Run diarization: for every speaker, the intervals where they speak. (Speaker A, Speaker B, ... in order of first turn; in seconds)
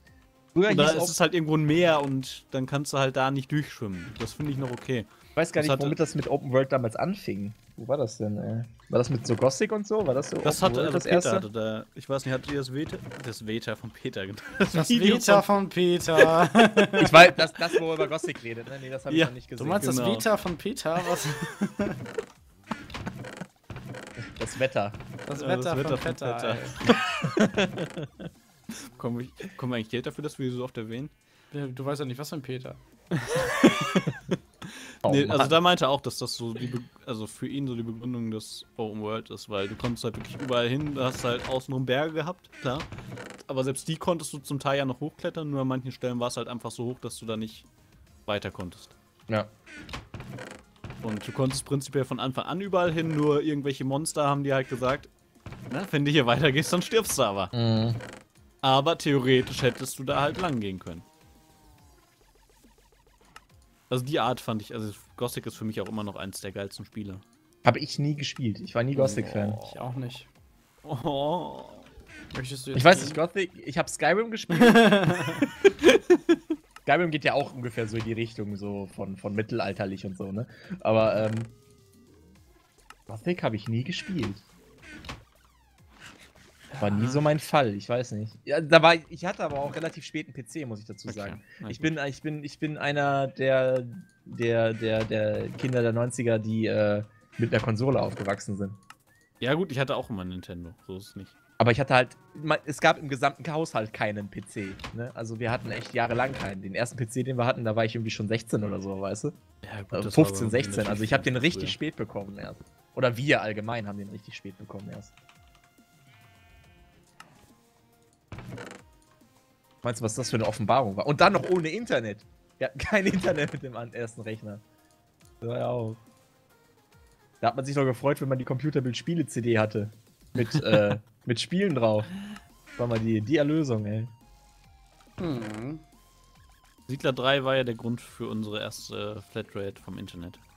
Speaker A: 0.5-1.2, 5.3-11.5, 17.0-19.9, 24.4-25.0, 27.2-28.1, 35.0-35.6, 57.5-58.0, 67.6-69.6, 72.8-75.2, 76.9-81.6, 83.1-84.4, 86.8-98.8, 101.6-109.3, 109.9-115.1, 119.8-124.6, 125.4-126.0, 127.4-132.1, 132.8-134.1
Speaker B: 0.7-6.0, 10.4-15.5, 19.1-20.2, 25.3-27.1, 28.9-31.1, 33.1-34.1, 35.0-42.9, 43.4-47.7, 48.3-49.0, 51.0-55.1, 55.7-57.5, 58.6-61.0, 63.9-67.2, 69.0-69.8, 70.8-71.9, 86.7-87.2, 91.1-91.9, 99.4-101.3, 109.6-111.8, 130.4-131.0, 136.9-140.4
Speaker C: 14.7-17.3, 19.6-22.0, 25.3-26.8, 31.5-32.8, 69.6-70.3, 72.3-73.2, 74.5-75.5, 135.2-135.8